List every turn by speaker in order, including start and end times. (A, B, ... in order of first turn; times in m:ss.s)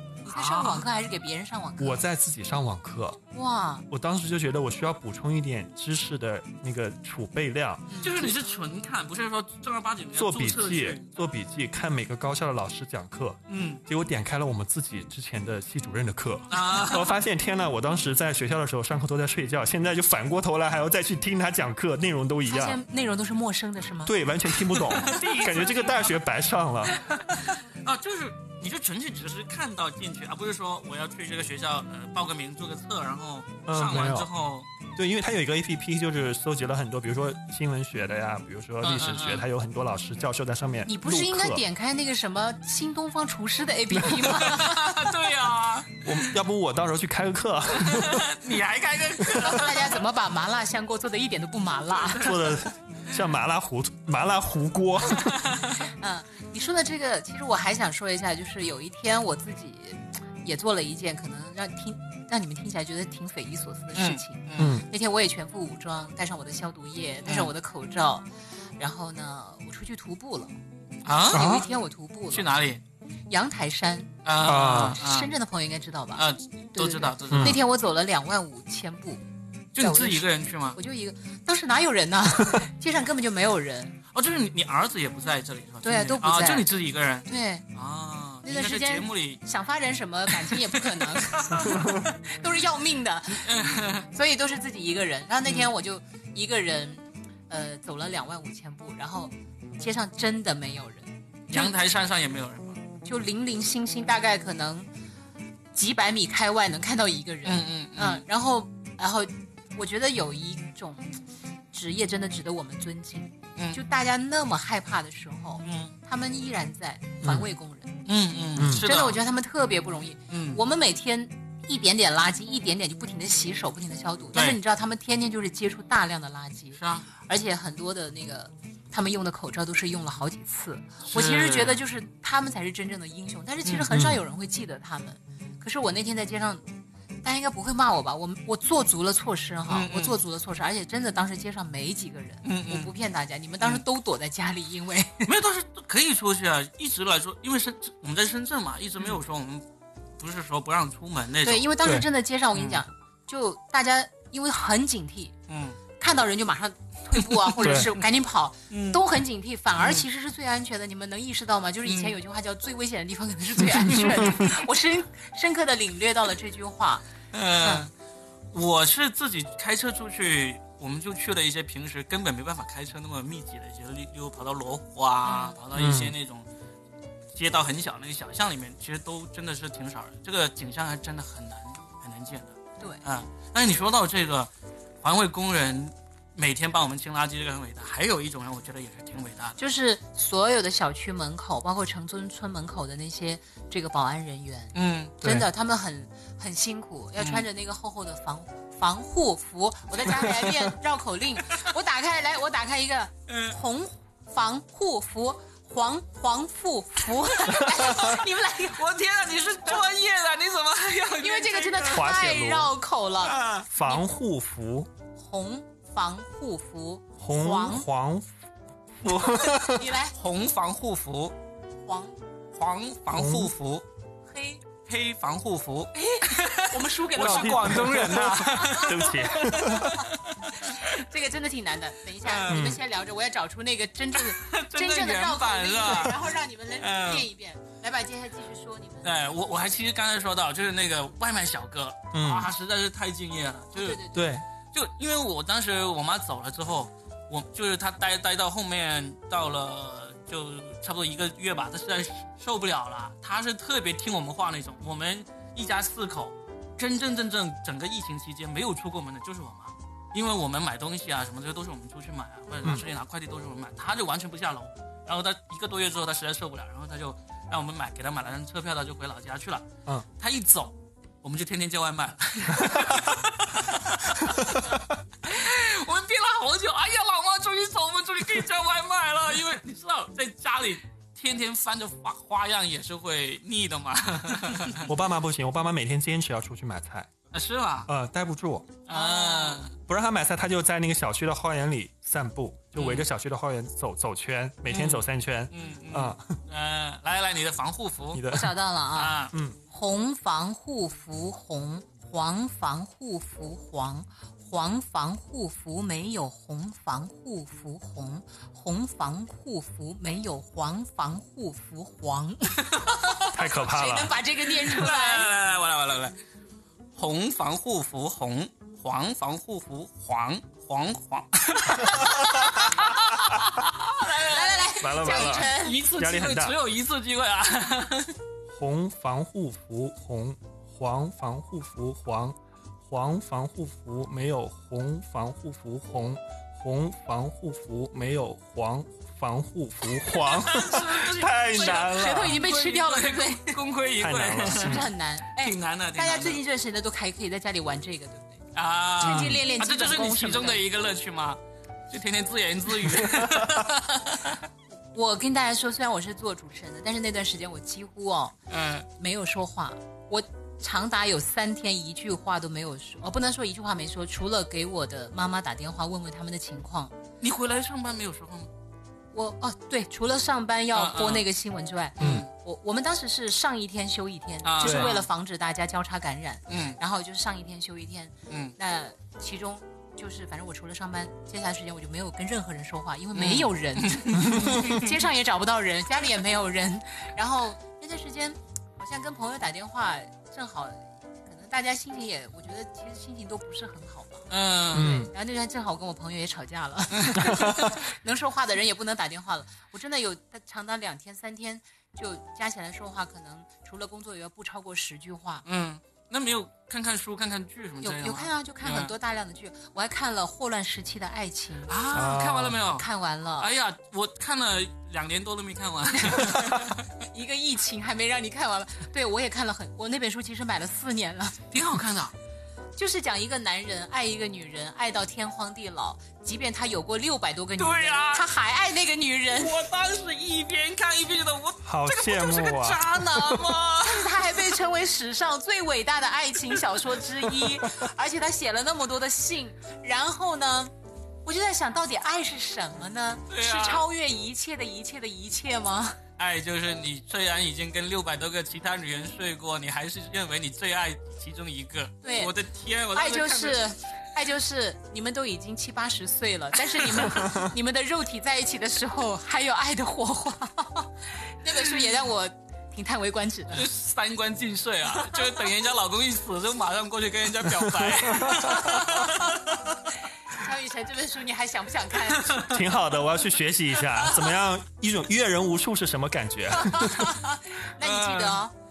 0:00.2-0:00.8 A
0:00.2-0:02.0 B
0:01.8-0:03.2 C
0:03.3-0:03.9 B
0:03.9-0:08.3 C
0:07.9-0:08.1 B
0:08.0-0:11.1 A
0:10.2-0:22.8 C
0:13.5-0:13.8 A
0:16.5-0:17.1 A
0:22.5-0:24.2 B
0:24.0-0:27.0 C
0:24.8-0:26.2 A
0:25.0-0:25.9 B
0:27.0-0:34.7 A
0:33.7-0:34.3 C
0:35.0-0:41.6 C
0:38.8-0:39.5 A
0:40.9-0:45.2 B
0:44.3-0:46.1 A
0:46.0-0:48.3 C
0:47.8-0:50.0 A
0:49.3-0:52.5 B
0:52.0-0:52.6 A
0:52.2-0:55.4 C
0:55.2-0:55.8 A
0:55.9-1:08.3 B
1:04.0-1:04.8 A
1:04.6-1:04.9 C
1:07.2-1:07.5 A
1:08.8-1:10.6 B
1:11.0-1:11.5 A
1:11.3-1:12.5 B
1:11.3-1:11.6 C
1:12.3-1:12.8 A
1:13.3-1:16.2 B
1:14.2-1:15.3 A
1:14.4-1:15.0 C
1:16.2-1:17.6 A
1:16.8-1:19.2 B
1:17.3-1:17.6 C
1:19.8-1:20.8 A
1:19.8-1:24.0 B
1:24.1-1:29.4 A
1:25.8-1:26.7 B
1:27.3-1:27.6 B
1:28.4-1:41.8 B
1:30.3-1:31.9 A
1:33.4-1:34.1 A
1:35.4-1:35.7 A
1:41.5-1:42.8 A
1:43.0-1:44.9 B
1:45.7-1:51.2 B
1:47.4-1:48.2 A
1:51.7-1:58.0 B
1:55.6-1:55.9 A
1:57.2-1:57.5 C
1:58.1-1:59.2 A
1:58.6-1:58.9 C
1:58.6-2:16.6 B
2:00.3-2:00.6 A
2:06.8-2:07.1 A
2:11.1-2:11.8 A
2:13.6-2:14.0 A
2:17.2-2:25.3 B
2:19.7-2:20.2 A
2:22.4-2:22.9 A
2:25.3-2:29.7 A
2:30.2-2:31.7 A
2:31.4-2:35.4 B
2:32.5-2:32.8 A
2:35.5-2:35.8 A
2:36.0-2:47.0 B
2:37.6-2:37.9 C
2:38.7-2:39.0 A
2:41.8-2:42.2 A
2:47.3-2:47.9 A
2:47.6-2:47.9 B
2:48.5-2:56.5 A
2:55.2-2:55.6 B
2:55.7-2:56.1 C
2:57.3-3:04.5 A
3:05.0-3:09.6 A
3:09.6-3:28.8 B
3:14.7-3:15.2 A
3:15.2-3:15.5 C
3:17.2-3:17.4 A
3:23.3-3:23.6 A
3:27.6-3:32.0 A
3:31.2-3:34.0 B
3:31.9-3:32.7 C
3:33.2-3:33.7 A
3:33.7-3:34.9 C
3:35.2-3:37.9 B
3:37.2-3:38.3 C
3:39.0-3:39.8 C
3:39.4-3:40.2 B
3:40.1-3:41.4 A
3:41.8-3:42.2 B
3:42.6-3:43.8 A
3:43.1-3:43.5 C
3:44.2-3:44.6 B
3:44.9-3:50.8 A
3:45.9-3:50.0 B
3:47.2-3:50.1 C
3:50.6-3:59.2 B
3:52.2-3:52.8 A
3:52.5-3:52.8 C
3:54.2-3:57.3 A
3:59.0-4:04.0 A
4:02.1-4:02.5 C
4:03.7-4:04.3 B
4:04.1-4:04.4 C
4:04.7-4:29.7 A
4:30.2-4:44.9 A
4:44.8-4:47.1 C
4:47.3-4:47.9 A
4:47.9-4:48.8 C
4:48.9-4:49.8 A
4:48.9-4:49.7 B
4:49.9-4:56.4 C
4:52.8-4:53.1 A
4:54.7-4:58.2 A
4:58.1-4:58.6 C
4:58.3-5:15.3 B
4:58.9-4:59.3 A
4:59.3-4:59.6 C
5:12.7-5:13.3 A
5:13.3-5:14.2 C
5:14.4-5:16.2 A
5:17.0-5:28.2 A
5:22.6-5:22.9 B
5:24.0-5:25.8 B
5:24.8-5:26.6 C
5:28.5-5:32.4 C
5:32.9-5:42.4 C
5:40.0-5:46.4 A
5:41.5-5:43.6 B
5:44.0-5:44.9 C
5:44.4-5:48.4 B
5:48.6-5:54.4 A
5:49.0-5:50.6 B
5:49.0-5:49.4 C
5:54.9-5:58.4 B
5:58.5-5:58.9 A
5:59.0-6:06.9 B
6:07.2-6:08.5 A
6:09.1-6:45.4 B
6:10.7-6:11.3 A
6:12.0-6:12.3 A
6:12.0-6:12.3 C
6:14.4-6:15.1 A
6:14.6-6:14.9 C
6:16.5-6:16.8 A
6:18.3-6:18.5 A
6:23.2-6:24.9 A
6:34.3-6:35.0 A
6:34.7-6:35.1 C
6:37.0-6:37.7 A
6:45.4-6:48.9 A
6:47.8-6:51.8 B
6:51.7-6:52.9 A
6:51.9-6:52.6 C
6:52.7-6:53.5 B
6:53.4-6:56.9 A
6:55.9-7:01.5 B
7:01.5-7:02.1 A
7:02.8-7:09.6 B
7:07.6-7:08.3 A
7:09.3-7:14.4 A
7:11.6-7:13.5 C
7:13.8-7:20.7 B
7:21.2-7:26.0 B
7:23.3-7:23.8 A
7:26.2-7:33.7 A
7:32.0-7:32.3 B
7:32.9-7:43.7 B
7:43.5-7:49.6 A
7:47.8-7:48.8 C
7:50.3-7:52.5 B
7:52.4-7:57.1 C
7:56.7-7:58.5 B
7:57.8-7:58.4 A